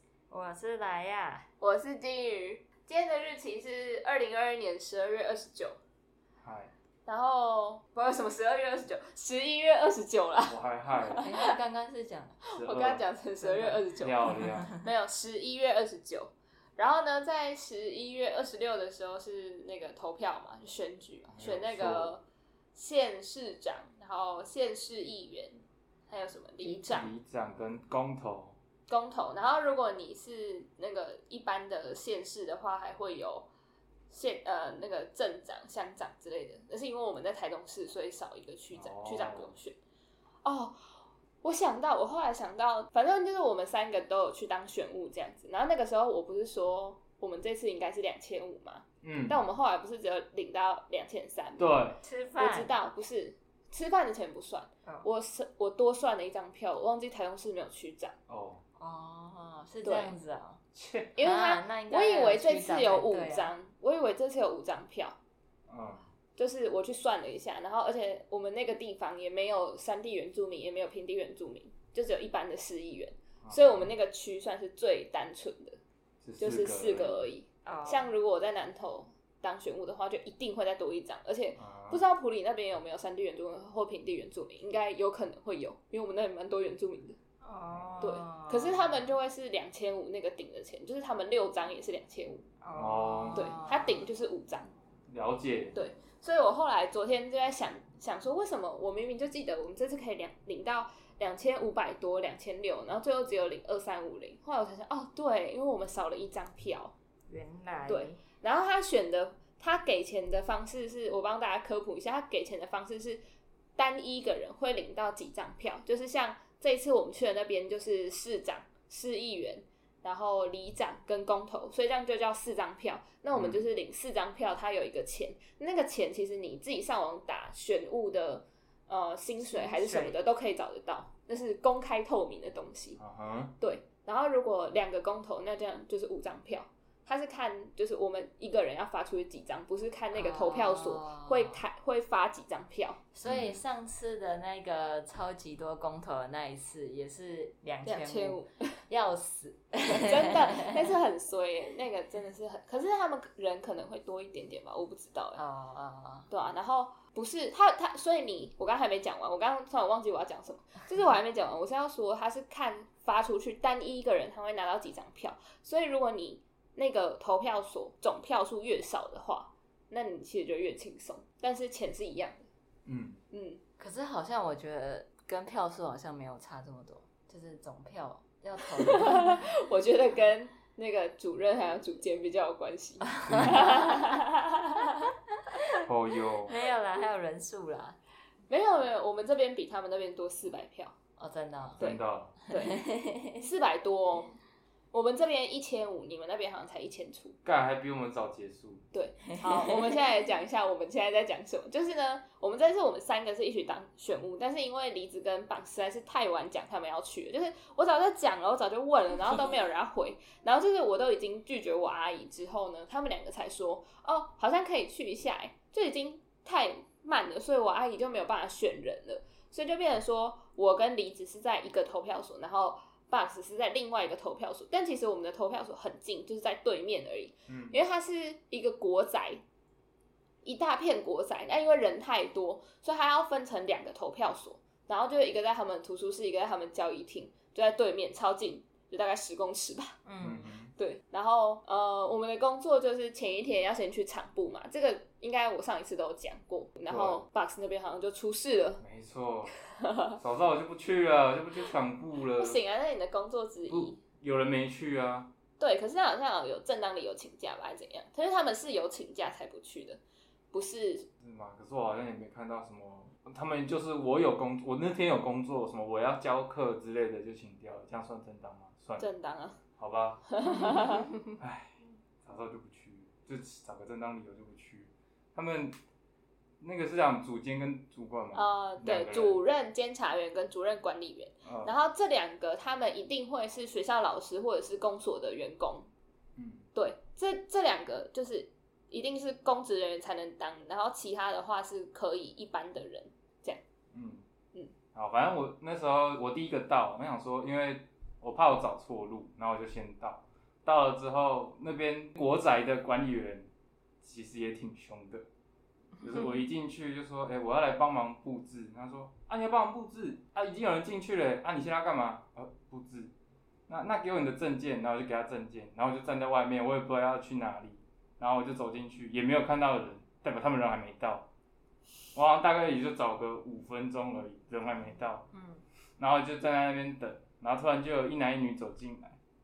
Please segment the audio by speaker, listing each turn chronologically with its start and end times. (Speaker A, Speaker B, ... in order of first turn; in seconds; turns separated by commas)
Speaker A: 0.3-1.5, Speaker B: 1.6-5.8, Speaker C: 6.4-6.7, Speaker B: 7.1-11.6, Speaker C: 10.5-11.3, Speaker A: 11.2-12.4, Speaker C: 12.5-13.0, Speaker B: 12.6-22.2, Speaker A: 13.4-13.8, Speaker C: 14.0-14.7, Speaker C: 21.3-22.1, Speaker B: 22.8-27.1, Speaker C: 26.6-28.6, Speaker B: 28.9-33.5, Speaker B: 34.1-39.8, Speaker C: 38.7-39.5, Speaker B: 40.4-40.9, Speaker B: 41.4-58.1, Speaker C: 49.0-49.4, Speaker C: 51.6-52.0, Speaker A: 52.0-52.7, Speaker C: 58.3-58.6, Speaker A: 58.8-60.6, Speaker B: 59.8-60.1, Speaker C: 60.8-61.1, Speaker B: 61.2-65.2, Speaker A: 61.2-63.5, Speaker C: 65.7-66.0, Speaker B: 66.4-75.8, Speaker C: 73.4-73.9, Speaker C: 76.2-77.3, Speaker B: 76.4-87.2, Speaker A: 77.7-78.1, Speaker C: 81.6-82.0, Speaker A: 87.4-89.0, Speaker C: 87.7-88.0, Speaker B: 88.0-92.5, Speaker A: 92.6-94.0, Speaker C: 92.8-93.5, Speaker B: 93.3-94.7, Speaker C: 95.1-95.8, Speaker B: 95.8-106.9, Speaker A: 107.3-108.2, Speaker B: 107.9-113.2, Speaker B: 113.8-133.0, Speaker C: 123.3-123.6, Speaker A: 129.5-130.2, Speaker C: 133.0-133.5, Speaker B: 133.6-143.0, Speaker A: 140.1-141.6, Speaker A: 143.1-150.9, Speaker C: 143.2-143.6, Speaker B: 147.8-148.8, Speaker B: 149.8-155.4, Speaker A: 155.4-156.3, Speaker B: 156.3-172.5, Speaker C: 172.9-173.2, Speaker B: 173.3-173.6, Speaker A: 173.8-179.5, Speaker B: 178.7-185.1, Speaker A: 183.1-184.1, Speaker C: 183.2-183.7, Speaker C: 185.8-186.6, Speaker A: 186.5-188.0, Speaker B: 188.5-190.9, Speaker A: 191.2-191.8, Speaker C: 191.8-192.3, Speaker B: 191.8-194.3, Speaker A: 192.5-193.4, Speaker B: 194.9-197.4, Speaker C: 197.4-198.8, Speaker B: 198.9-229.4, Speaker A: 199.4-199.7, Speaker C: 227.5-227.8, Speaker B: 230.4-240.0, Speaker A: 240.1-240.5, Speaker C: 240.2-240.7, Speaker B: 240.8-248.8, Speaker C: 246.9-247.2, Speaker C: 248.8-249.5, Speaker B: 249.8-250.2, Speaker C: 250.2-252.6, Speaker B: 252.4-254.0, Speaker C: 253.7-255.3, Speaker B: 255.6-260.0, Speaker B: 260.5-261.1, Speaker C: 261.2-269.1, Speaker B: 269.0-269.6, Speaker C: 269.8-270.2, Speaker B: 270.3-271.1, Speaker C: 271.4-275.8, Speaker C: 276.6-279.4, Speaker B: 278.3-285.9, Speaker C: 281.4-281.7, Speaker C: 286.4-286.7, Speaker B: 286.8-293.6, Speaker C: 293.9-294.2, Speaker C: 294.9-303.5, Speaker C: 304.0-305.3, Speaker C: 306.0-313.1, Speaker C: 313.7-321.3, Speaker C: 322.1-325.3, Speaker A: 325.3-325.6, Speaker C: 326.0-329.2